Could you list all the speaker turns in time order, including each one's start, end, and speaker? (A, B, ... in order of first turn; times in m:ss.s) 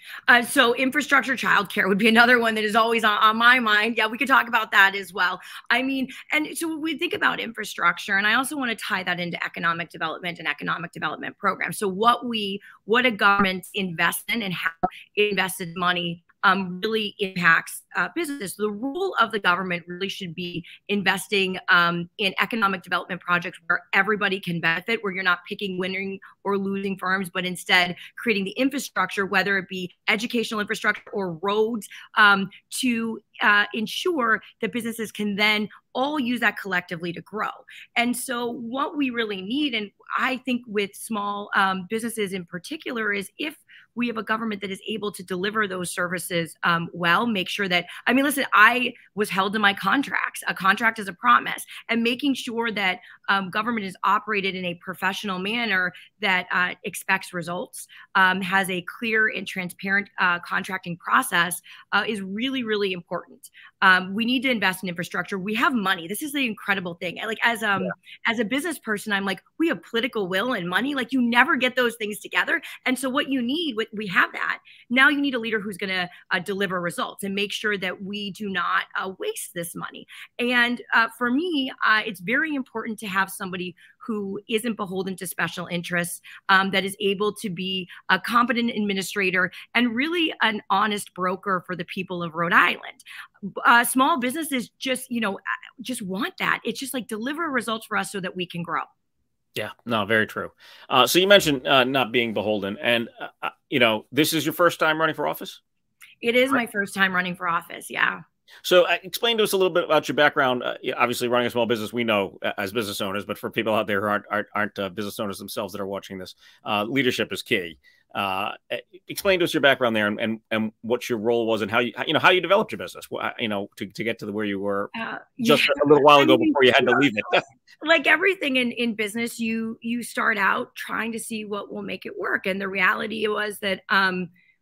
0:00.3-1:38.9 A
1:39.5-1:45.6 B
1:46.2-1:48.2 A
1:48.6-2:04.9 B
2:04.9-2:14.3 A
2:05.4-2:07.4 B